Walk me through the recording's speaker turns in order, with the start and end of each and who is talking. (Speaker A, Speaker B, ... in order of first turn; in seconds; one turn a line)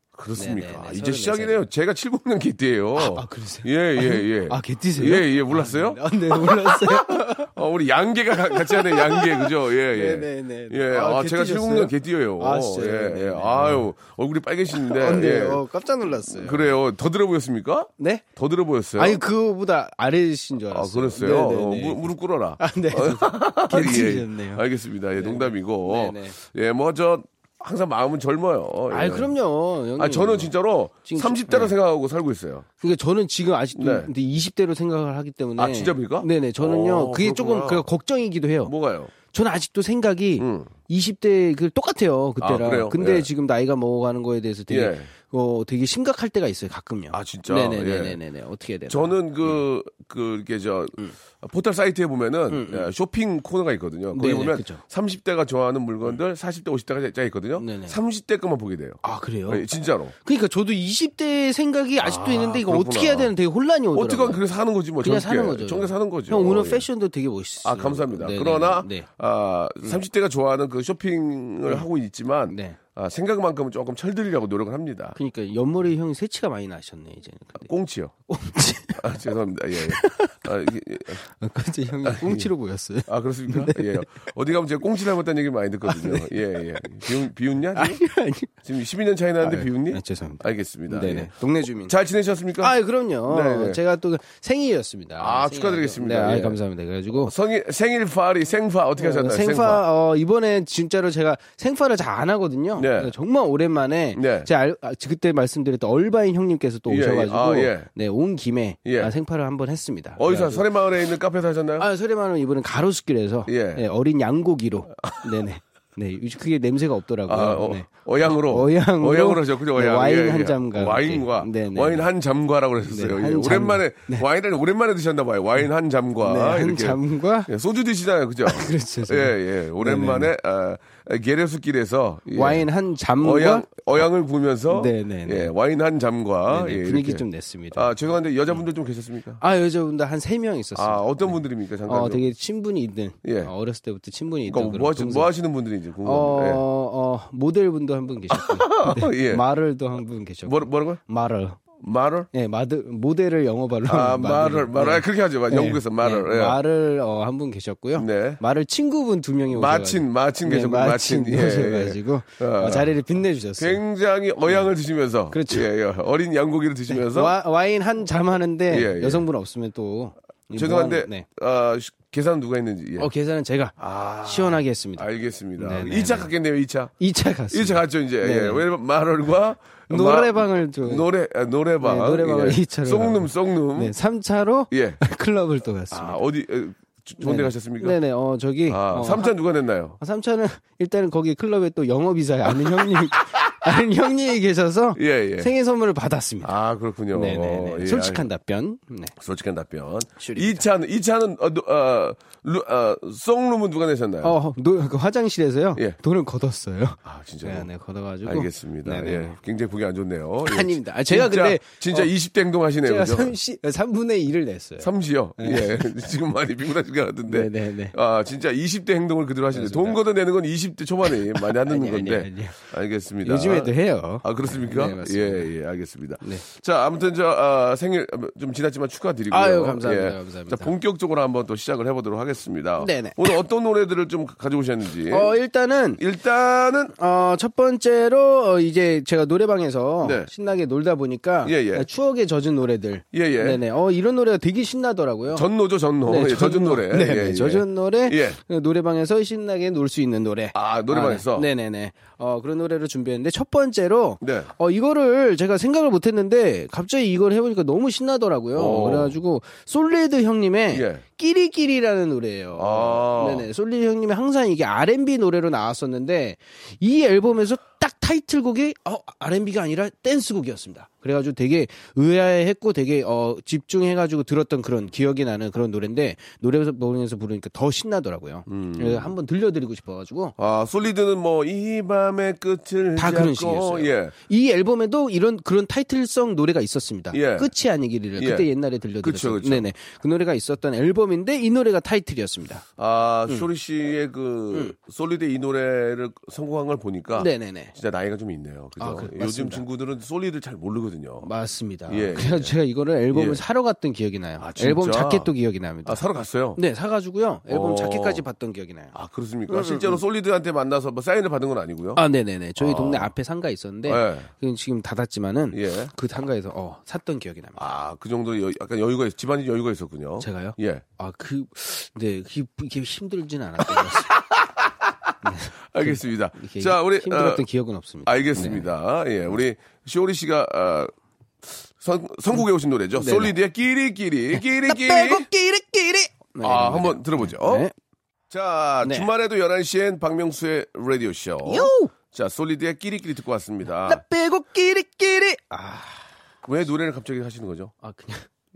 Speaker A: 0.1-19.2
Speaker B: 0.4-1.7
Speaker B: 3.0-7.5
Speaker B: 8.4-13.9
Speaker B: 14.7-16.8
Speaker B: 18.0-18.2
Speaker B: 18.9-24.6
Speaker A: 20.7-29.3
Speaker B: 25.2-26.4
Speaker B: 28.9-30.5
Speaker A: 30.0-32.6
Speaker B: 31.1-31.7
Speaker B: 32.8-38.7
Speaker A: 33.8-34.1
Speaker A: 35.6-37.9
Speaker A: 38.6-39.1
Speaker B: 39.2-49.6
Speaker A: 40.4-40.7
Speaker A: 42.4-43.3
Speaker A: 44.7-45.1
Speaker A: 47.1-48.2
Speaker A: 48.9-60.1
Speaker B: 52.5-52.9
Speaker B: 54.1-54.8
Speaker B: 57.6-58.0
Speaker B: 59.0-59.6
Speaker B: 60.2-64.4
Speaker A: 62.0-63.3
Speaker A: 63.9-66.9
Speaker B: 65.0-69.1
Speaker A: 67.6-75.2
Speaker B: 72.5-72.8
Speaker B: 75.2-77.7
Speaker A: 77.6-78.1
Speaker B: 78.3-79.2
Speaker A: 79.0-81.2
Speaker B: 79.8-80.4
Speaker B: 81.2-84.2
Speaker A: 82.0-82.5
Speaker A: 83.1-88.0
Speaker B: 85.9-87.2
Speaker B: 87.7-88.5
Speaker A: 88.6-92.8
Speaker B: 89.4-91.9
Speaker B: 92.6-97.3
Speaker A: 93.2-93.8
Speaker A: 95.2-96.6
Speaker A: 97.1-99.8
Speaker B: 99.0-110.7
Speaker A: 102.8-103.1
Speaker A: 104.1-104.5
Speaker A: 106.9-107.9
Speaker A: 108.8-109.1
Speaker A: 110.2-111.9
Speaker B: 111.8-122.1
Speaker A: 113.5-113.8
Speaker A: 114.9-115.4
Speaker A: 117.3-132.7
Speaker B: 122.9-124.3
Speaker B: 126.2-127.5
Speaker B: 128.4-130.3
Speaker B: 132.3-134.1
Speaker A: 133.2-139.4
Speaker B: 134.7-135.5
Speaker B: 136.5-137.9
Speaker B: 139.4-145.3
Speaker A: 140.8-142.3
Speaker A: 143.2-143.5
Speaker A: 144.5-146.6
Speaker B: 146.1-151.6
Speaker A: 148.3-149.4
Speaker A: 150.4-151.0
Speaker A: 151.8-152.3
Speaker B: 152.3-163.8
Speaker A: 153.9-156.6
Speaker A: 158.0-158.4
Speaker A: 159.5-162.9
Speaker A: 163.6-167.3
Speaker B: 165.3-165.7
Speaker B: 166.9-171.2
Speaker A: 168.7-169.2
Speaker A: 170.5-173.1
Speaker B: 173.0-175.1
Speaker A: 173.8-176.9
Speaker B: 175.6-176.3
Speaker B: 177.0-178.7
Speaker A: 177.5-183.9
Speaker B: 179.9-181.1
Speaker B: 181.8-186.2
Speaker A: 184.7-185.0
Speaker A: 185.9-188.0
Speaker B: 187.2-189.4
Speaker A: 188.7-190.0
Speaker B: 190.0-196.5
Speaker A: 192.6-193.7
Speaker A: 194.9-195.5
Speaker A: 196.4-198.3
Speaker B: 197.1-199.1
Speaker A: 199.2-204.4
Speaker B: 200.2-200.7
Speaker B: 204.2-209.4
Speaker A: 207.0-207.7
Speaker A: 208.2-213.3
Speaker B: 210.4-212.1
Speaker B: 212.8-215.8
Speaker A: 214.8-235.3
Speaker B: 217.3-217.9
Speaker B: 219.5-220.0
Speaker B: 221.3-222.7
Speaker B: 223.2-225.5
Speaker B: 229.3-230.7
Speaker B: 232.8-233.2
Speaker B: 235.1-236.0
Speaker A: 236.0-236.9
Speaker B: 236.9-245.5
Speaker A: 240.0-240.3
Speaker A: 241.4-241.9
Speaker A: 243.1-243.6
Speaker A: 245.3-248.4
Speaker B: 246.1-280.4
Speaker A: 250.5-251.5
Speaker A: 254.2-254.5
Speaker A: 258.5-259.1
Speaker A: 260.7-261.0
Speaker A: 262.6-263.5
Speaker A: 278.5-279.1
Speaker A: 280.4-284.1
Speaker B: 283.0-292.6
Speaker A: 287.1-287.5
Speaker A: 288.2-288.5
Speaker A: 289.0-289.7
Speaker A: 292.8-301.3
Speaker B: 297.1-297.7
Speaker B: 298.8-299.6
Speaker B: 301.2-306.0
Speaker A: 301.9-302.5
Speaker A: 303.1-303.4
Speaker A: 304.4-305.3
Speaker A: 305.9-306.6
Speaker B: 306.6-308.9
Speaker A: 307.5-308.2
Speaker A: 308.9-312.0
Speaker B: 309.5-310.0
Speaker B: 312.0-317.6
Speaker A: 312.6-313.1
Speaker A: 313.9-314.3
Speaker A: 315.5-315.9
Speaker A: 317.6-320.9
Speaker B: 320.2-324.1
Speaker A: 323.7-325.1
Speaker B: 325.2-328.7
Speaker A: 325.7-327.4
Speaker A: 328.1-330.9
Speaker A: 331.5-335.3
Speaker B: 333.0-333.3
Speaker B: 334.3-337.7
Speaker A: 336.4-337.7
Speaker A: 338.3-344.0
Speaker B: 338.8-339.1
Speaker B: 341.4-341.9
Speaker B: 343.8-346.1
Speaker A: 346.4-347.7
Speaker B: 347.8-348.3